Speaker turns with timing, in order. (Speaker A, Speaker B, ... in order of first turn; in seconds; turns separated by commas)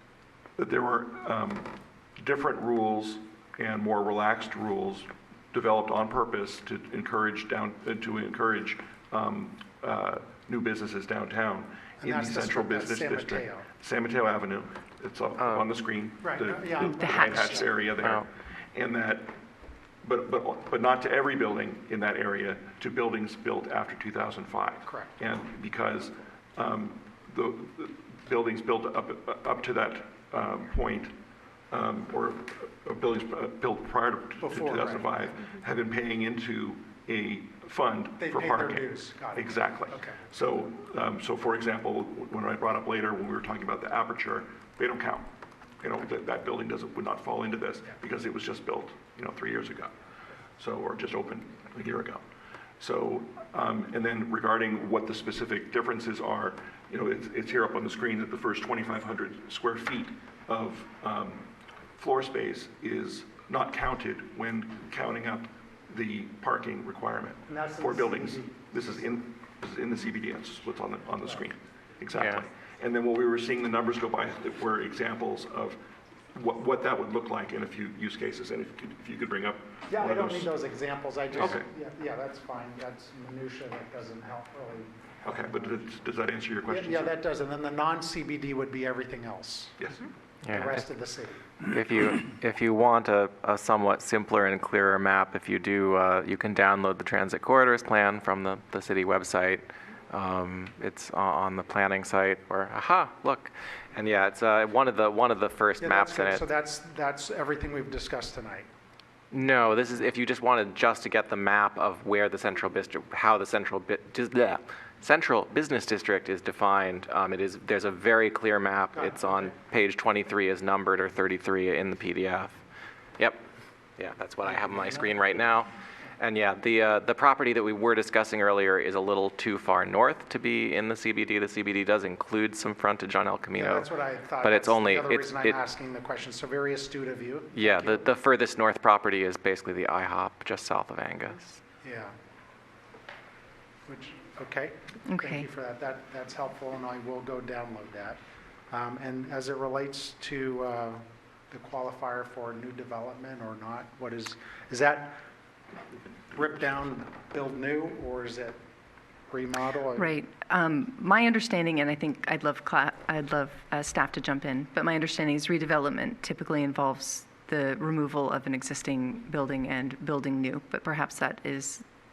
Speaker A: 0.6-19.4, Speaker B: 12.0-13.7, Speaker C: 15.4-15.7, Speaker B: 16.2-17.6, Speaker D: 16.8-17.7, Speaker C: 18.0-18.2, Speaker A: 20.0-31.1, Speaker B: 24.8-25.1, Speaker A: 31.7-45.3, Speaker B: 34.4-35.2, Speaker B: 38.2-40.2, Speaker A: 45.8-49.9, Speaker A: 50.6-52.2, Speaker A: 52.8-75.8, Speaker B: 67.5-69.1, Speaker C: 72.1-72.4, Speaker A: 76.3-80.5, Speaker B: 79.9-85.8, Speaker A: 81.3-81.7, Speaker A: 85.2-87.1, Speaker B: 86.7-89.8, Speaker A: 89.8-90.0, Speaker C: 90.4-90.8, Speaker B: 90.5-91.4, Speaker C: 91.7-106.5, Speaker B: 105.8-108.7, Speaker C: 109.3-122.6, Speaker B: 118.9-119.5, Speaker C: 123.2-123.4, Speaker C: 124.0-133.9, Speaker B: 124.5-124.8, Speaker B: 133.5-138.1, Speaker C: 134.4-135.6, Speaker C: 137.5-141.6, Speaker B: 141.8-142.1, Speaker B: 143.8-148.2, Speaker D: 145.1-145.4, Speaker B: 148.7-155.2, Speaker B: 156.3-158.6, Speaker B: 159.3-160.1, Speaker D: 159.9-171.8